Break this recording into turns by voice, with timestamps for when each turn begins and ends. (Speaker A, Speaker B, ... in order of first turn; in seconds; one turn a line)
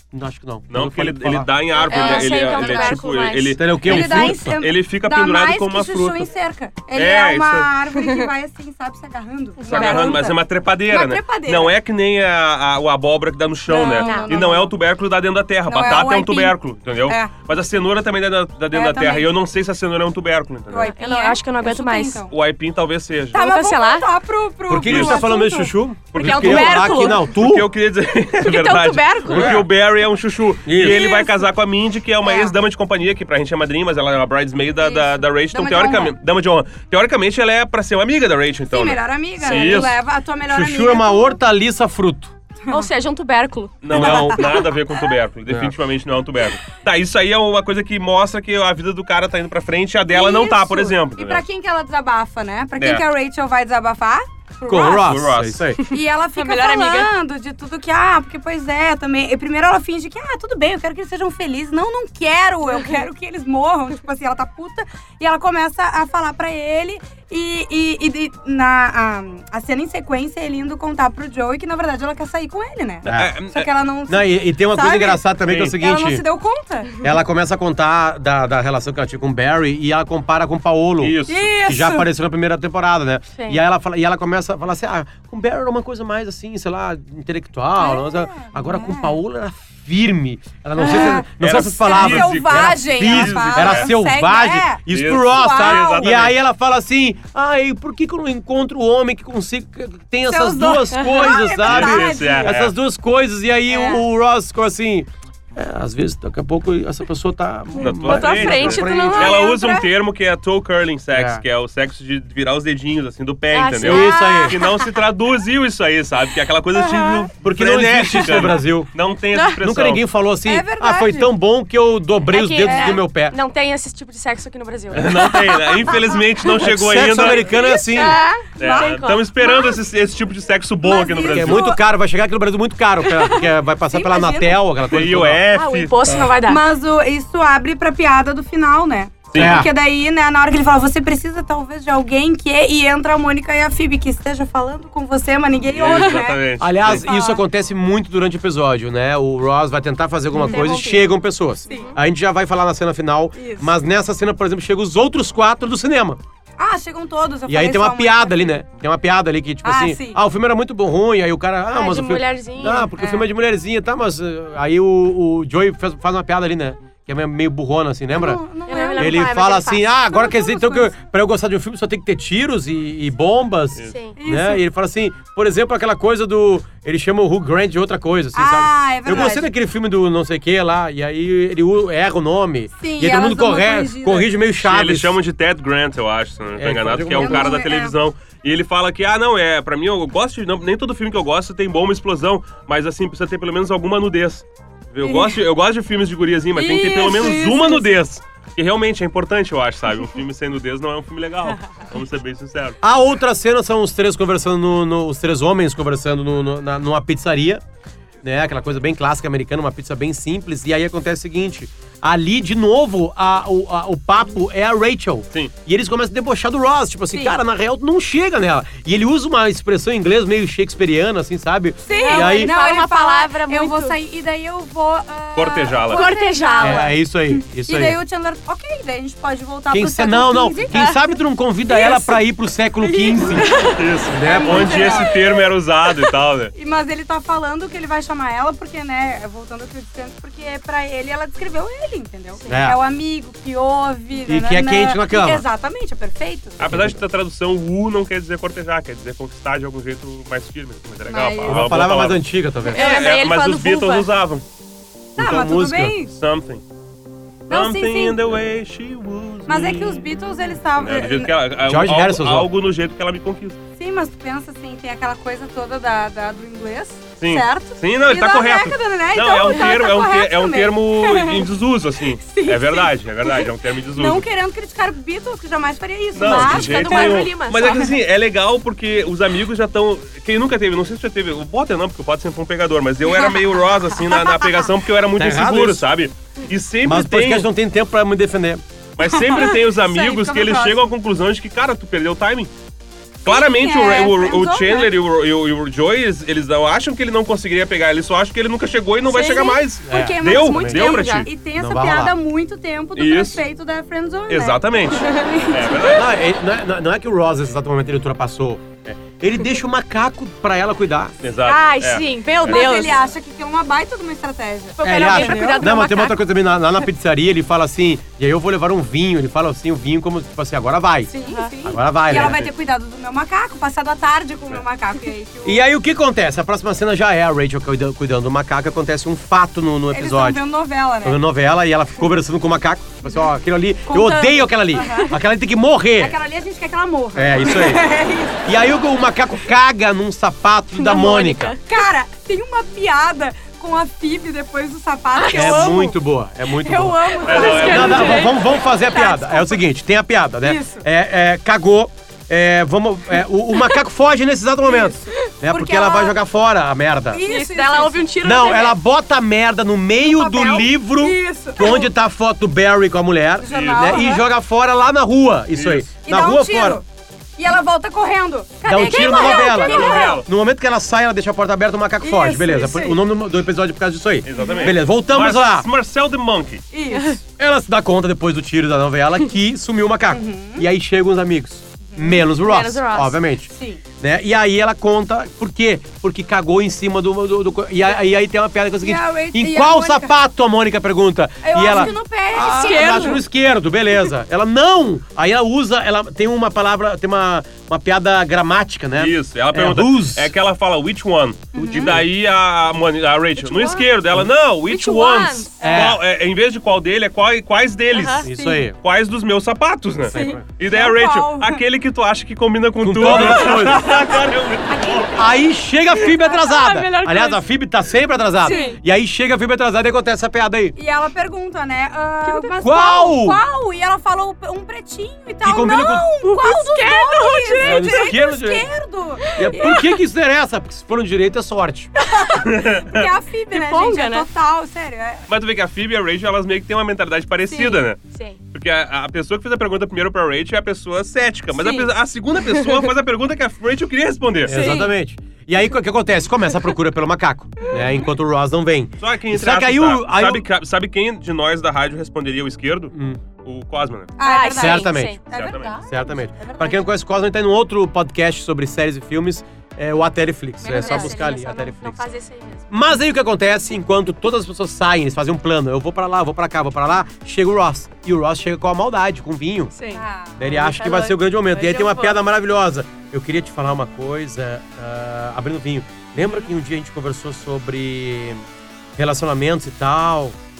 Speaker A: 0.1-1.5
Speaker B: 0.7-6.3
Speaker C: 1.7-3.6
Speaker D: 1.9-3.1
Speaker A: 3.5-4.6
Speaker D: 3.8-11.8
Speaker B: 6.9-7.7
Speaker C: 8.0-8.3
Speaker C: 9.6-10.3
Speaker B: 9.6-20.9
Speaker D: 13.7-14.7
Speaker C: 13.9-14.5
Speaker D: 15.7-16.6
Speaker D: 17.1-17.3
Speaker D: 18.7-19.3
Speaker D: 20.7-22.3
Speaker C: 20.9-22.2
Speaker B: 22.3-23.4
Speaker D: 23.3-25.7
Speaker C: 23.3-24.1
Speaker A: 24.7-27.7
Speaker B: 24.8-25.2
Speaker B: 26.1-40.0
Speaker C: 26.1-27.2
Speaker C: 28.4-29.6
Speaker A: 29.3-29.7
Speaker A: 30.6-31.0
Speaker D: 30.9-31.3
Speaker C: 31.0-31.2
Speaker D: 32.2-32.5
Speaker D: 34.8-36.1
Speaker D: 38.7-41.4
Speaker C: 39.5-39.8
Speaker A: 40.5-42.3
Speaker C: 42.7-44.5
Speaker B: 43.8-51.4
Speaker A: 43.9-44.5
Speaker D: 43.9-44.6
Speaker A: 45.5-45.7
Speaker D: 50.1-55.1
Speaker B: 52.8-53.0
Speaker A: 54.6-55.8
Speaker B: 54.9-55.6
Speaker D: 55.9-77.0
Speaker C: 56.4-57.1
Speaker A: 73.0-73.3
Speaker B: 73.0-73.7
Speaker A: 74.1-76.2
Speaker B: 75.5-75.8
Speaker A: 77.0-109.3
Speaker B: 81.0-81.5
Speaker D: 81.3-82.1
Speaker D: 87.8-89.2
Speaker D: 90.8-96.2
Speaker B: 91.4-93.9
Speaker B: 94.9-96.3
Speaker D: 100.2-102.6
Speaker C: 101.0-101.3
Speaker B: 101.6-102.7
Speaker D: 103.7-104.0
Speaker C: 107.8-109.6
Speaker B: 107.8-120.0
Speaker D: 109.1-109.8
Speaker A: 111.1-111.4
Speaker C: 113.5-114.8
Speaker A: 113.8-114.6
Speaker D: 113.9-114.6
Speaker D: 116.7-117.3
Speaker A: 117.4-118.9
Speaker C: 119.3-119.6
Speaker A: 119.6-123.3
Speaker D: 120.4-121.3
Speaker C: 122.3-126.0
Speaker D: 122.6-123.0
Speaker B: 124.9-127.5
Speaker A: 126.6-128.2
Speaker D: 127.3-129.8
Speaker C: 127.4-129.3
Speaker B: 128.6-131.7
Speaker D: 130.8-131.8
Speaker A: 131.3-135.4
Speaker D: 133.9-134.6
Speaker B: 134.9-136.2
Speaker C: 135.5-136.6
Speaker D: 136.4-147.4
Speaker B: 139.3-139.7
Speaker A: 139.3-139.7
Speaker B: 145.7-147.1
Speaker C: 145.8-146.2
Speaker A: 146.6-156.2
Speaker C: 150.3-151.1
Speaker D: 150.3-150.7
Speaker C: 151.7-152.0
Speaker D: 151.7-151.9
Speaker D: 153.4-153.6
Speaker D: 156.6-158.6
Speaker A: 157.5-168.4
Speaker D: 159.6-160.2
Speaker C: 161.7-162.9
Speaker D: 163.0-163.3
Speaker D: 168.1-170.9
Speaker C: 168.7-169.9
Speaker A: 168.9-185.2
Speaker C: 173.9-174.1
Speaker D: 174.2-174.6
Speaker D: 178.3-179.5
Speaker D: 182.8-184.3
Speaker B: 184.6-202.8
Speaker A: 186.6-187.5
Speaker D: 187.1-187.9
Speaker D: 195.0-195.4
Speaker D: 196.5-197.9
Speaker A: 202.8-207.6
Speaker A: 208.2-222.5
Speaker D: 217.1-217.4
Speaker D: 221.8-230.9
Speaker C: 221.9-223.9
Speaker B: 225.3-226.1
Speaker C: 225.9-226.9
Speaker A: 226.6-228.0
Speaker A: 229.7-233.5
Speaker C: 230.7-231.0
Speaker D: 231.7-232.1
Speaker D: 232.8-235.2
Speaker C: 233.4-233.8
Speaker B: 233.7-236.5
Speaker A: 234.1-235.0
Speaker D: 236.5-246.7
Speaker A: 242.5-242.8
Speaker A: 244.3-245.4
Speaker B: 246.6-254.4
Speaker A: 246.6-247.0
Speaker D: 251.1-251.7
Speaker A: 251.4-252.9
Speaker C: 252.7-254.1
Speaker A: 255.2-255.9
Speaker D: 255.2-256.1
Speaker B: 256.1-256.6
Speaker D: 257.5-258.2
Speaker B: 257.5-260.1
Speaker D: 259.5-261.3
Speaker B: 260.8-263.6
Speaker A: 261.6-262.5
Speaker D: 263.8-271.5
Speaker B: 267.2-274.2
Speaker D: 272.2-277.9
Speaker B: 276.1-287.5
Speaker C: 276.3-277.9
Speaker A: 276.3-276.6
Speaker A: 285.2-285.9
Speaker A: 286.8-288.6
Speaker B: 289.0-292.5
Speaker D: 289.0-290.8
Speaker D: 293.2-294.9
Speaker B: 293.2-301.3
Speaker C: 299.1-301.3
Speaker A: 299.9-300.9
Speaker D: 299.9-306.0
Speaker A: 301.6-302.1
Speaker B: 302.9-303.4
Speaker B: 304.3-306.1
Speaker A: 305.9-311.1
Speaker B: 311.2-312.6
Speaker C: 311.4-313.0
Speaker D: 312.4-315.8
Speaker C: 314.8-316.2
Speaker A: 314.8-321.1
Speaker D: 321.1-325.6
Speaker A: 321.6-322.5
Speaker B: 322.1-322.5
Speaker A: 325.4-330.4
Speaker D: 329.9-331.2
Speaker A: 331.0-336.2
Speaker D: 333.9-335.1
Speaker D: 336.0-338.5
Speaker A: 337.1-337.9
Speaker A: 338.4-341.6
Speaker C: 340.8-341.6
Speaker D: 341.6-345.9
Speaker C: 345.1-345.9
Speaker A: 345.3-357.2
Speaker D: 346.6-349.6
Speaker C: 347.2-348.4
Speaker B: 347.2-348.2
Speaker D: 350.4-350.8
Speaker D: 354.6-356.1
Speaker D: 357.1-358.1
Speaker C: 357.2-358.8
Speaker A: 358.2-366.8
Speaker D: 360.0-361.9
Speaker D: 363.4-364.2
Speaker B: 363.5-364.0
Speaker B: 365.5-365.9
Speaker D: 366.0-366.8
Speaker D: 367.4-370.2
Speaker A: 368.6-375.7
Speaker C: 368.8-370.0
Speaker B: 369.5-370.3
Speaker D: 372.0-373.0
Speaker B: 374.2-376.6
Speaker D: 374.3-374.7
Speaker D: 376.7-377.2
Speaker A: 377.4-400.3
Speaker D: 380.1-380.6
Speaker D: 381.9-382.2
Speaker C: 382.3-383.2
Speaker D: 383.5-383.8
Speaker D: 388.8-390.1
Speaker D: 391.4-393.2
Speaker C: 391.6-393.2
Speaker B: 399.0-408.3
Speaker D: 401.5-401.9
Speaker A: 401.6-402.0
Speaker C: 403.4-403.9
Speaker C: 404.7-405.5
Speaker D: 405.6-405.9
Speaker A: 405.6-406.0
Speaker C: 407.9-408.3
Speaker A: 408.2-408.8
Speaker D: 408.3-408.7
Speaker B: 408.8-415.1
Speaker A: 410.1-410.4
Speaker D: 410.1-411.6
Speaker A: 412.8-414.0
Speaker D: 414.7-415.2
Speaker A: 415.1-420.8
Speaker C: 416.1-417.4
Speaker C: 418.4-418.8
Speaker D: 418.4-418.8
Speaker D: 420.8-429.9
Speaker C: 422.2-422.6
Speaker A: 422.6-423.4
Speaker A: 425.4-426.1
Speaker C: 426.2-428.1
Speaker A: 427.6-428.7
Speaker A: 429.3-431.9
Speaker C: 429.4-429.8
Speaker D: 432.1-435.2
Speaker B: 432.4-433.1
Speaker C: 433.5-434.3
Speaker B: 435.3-444.8
Speaker D: 437.5-437.8
Speaker C: 438.1-438.4
Speaker D: 441.6-441.9
Speaker A: 444.4-450.4
Speaker C: 444.5-444.9
Speaker B: 449.0-454.1
Speaker A: 452.9-453.2
Speaker D: 454.2-456.9
Speaker C: 454.2-455.2
Speaker A: 454.4-455.2
Speaker B: 455.3-455.7
Speaker A: 455.8-462.1
Speaker C: 460.6-462.8
Speaker D: 460.6-461.2
Speaker A: 462.7-469.7
Speaker C: 469.7-472.2
Speaker D: 469.9-470.5
Speaker A: 470.4-478.4
Speaker A: 479.0-480.3